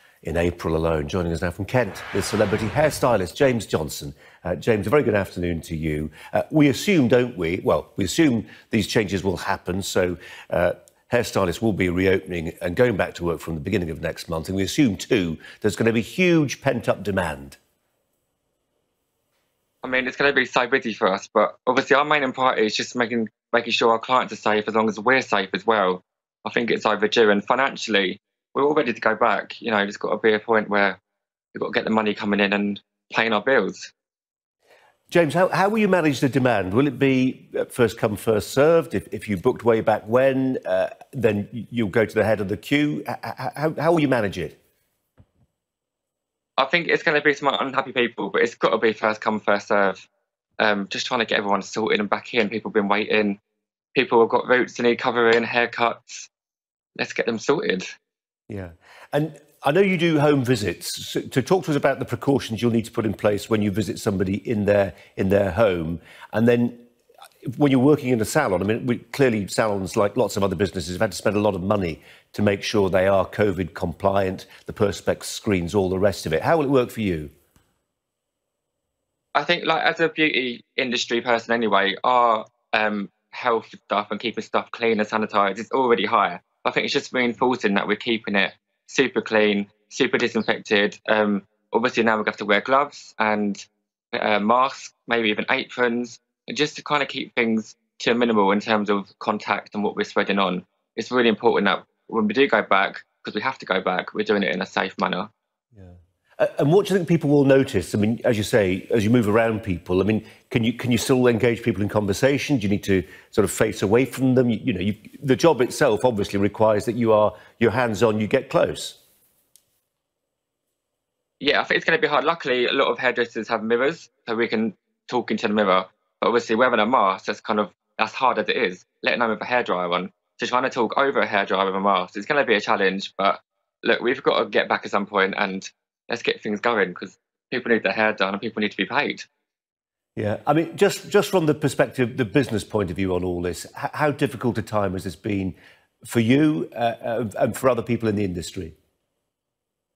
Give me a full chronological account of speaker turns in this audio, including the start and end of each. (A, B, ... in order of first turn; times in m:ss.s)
0:00.2-0:17.6 A
0:19.8-0:31.0 B
0:31.5-0:33.9 B
0:35.1-0:44.6 A
0:46.6-0:50.1 B
0:50.6-0:53.4 B
0:53.9-0:56.3 B
0:57.0-0:57.9 B
0:58.5-1:06.9 A
1:07.4-1:17.3 A
1:19.3-1:45.3 B
1:45.7-1:59.0 A
2:01.4-2:19.3 B
2:20.2-2:28.7 A